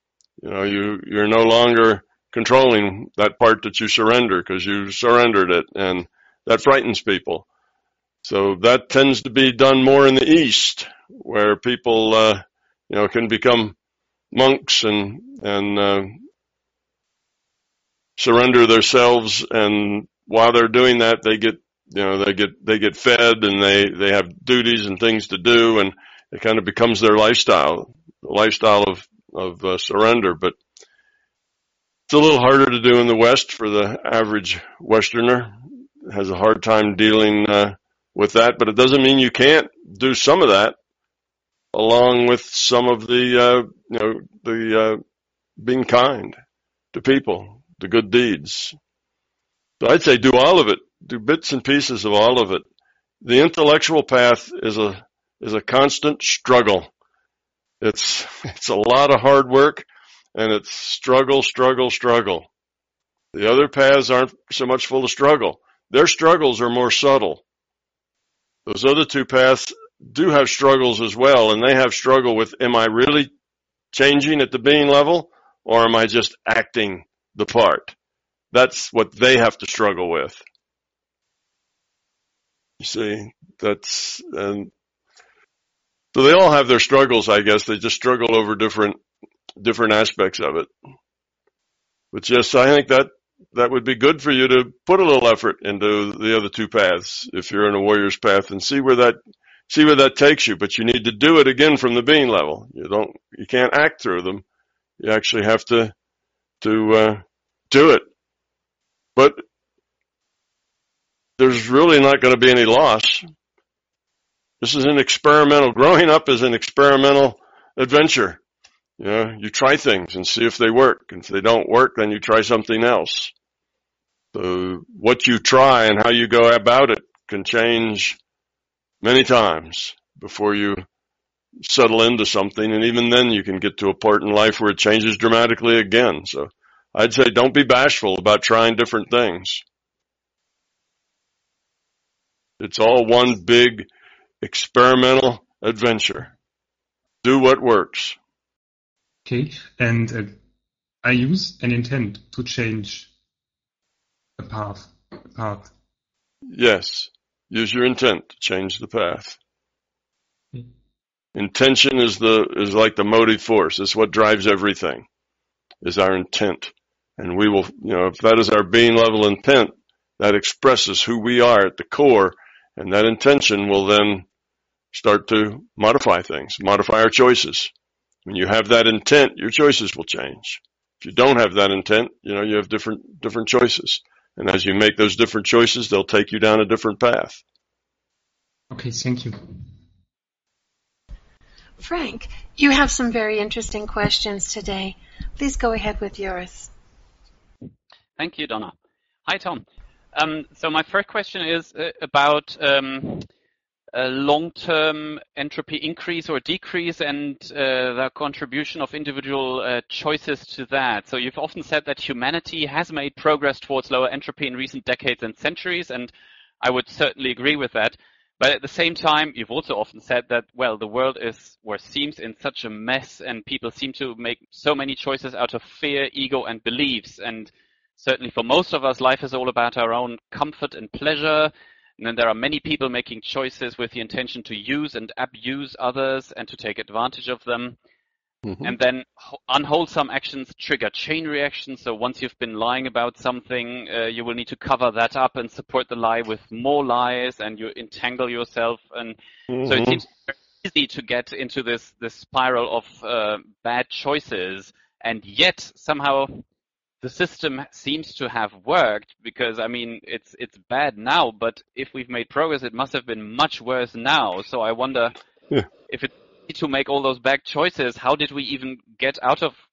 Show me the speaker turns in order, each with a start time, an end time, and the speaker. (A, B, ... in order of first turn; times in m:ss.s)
0:00.4-0:07.4 A
0:08.2-0:13.7 A
0:14.3-0:16.2 A
0:18.2-0:30.5 A
0:32.1-0:35.5 A
0:36.0-0:40.8 A
0:41.7-0:45.0 A
0:45.6-0:46.4 A
0:46.9-0:48.7 A
0:49.8-0:52.6 A
0:53.2-0:56.9 A
0:57.8-1:02.5 A
1:03.3-1:07.4 A
1:08.6-1:13.3 A
1:13.9-1:17.9 A
1:18.5-1:20.4 A
1:22.8-1:24.7 A
1:26.1-1:29.0 A
1:29.6-1:30.7 A
1:32.1-1:39.2 A
1:39.7-1:44.4 A
1:45.0-1:45.9 A
1:46.6-1:48.0 A
1:49.2-1:49.4 A
1:51.4-1:53.2 A
1:54.6-1:58.4 A
1:59.0-2:03.3 A
2:04.3-2:08.2 A
2:09.0-2:10.8 A
2:11.6-2:19.6 A
2:22.6-2:23.9 A
2:24.4-2:26.3 A
2:27.2-2:28.2 A
2:29.2-2:30.4 B
2:31.0-2:33.1 B
2:34.4-2:35.7 B
2:36.5-2:39.4 A
2:41.3-2:45.0 A
2:45.8-2:54.2 A
2:54.9-2:57.7 A
2:58.2-3:07.4 A
3:08.7-3:09.6 B
3:11.8-3:16.7 C
3:18.2-3:18.7 D
3:19.2-3:23.3 D
3:23.9-3:57.8 D
3:58.4-3:58.7 A
3:58.6-4:16.4 D
4:09.5-4:10.0 A
4:17.0-4:25.2 D
4:25.9-4:29.5 D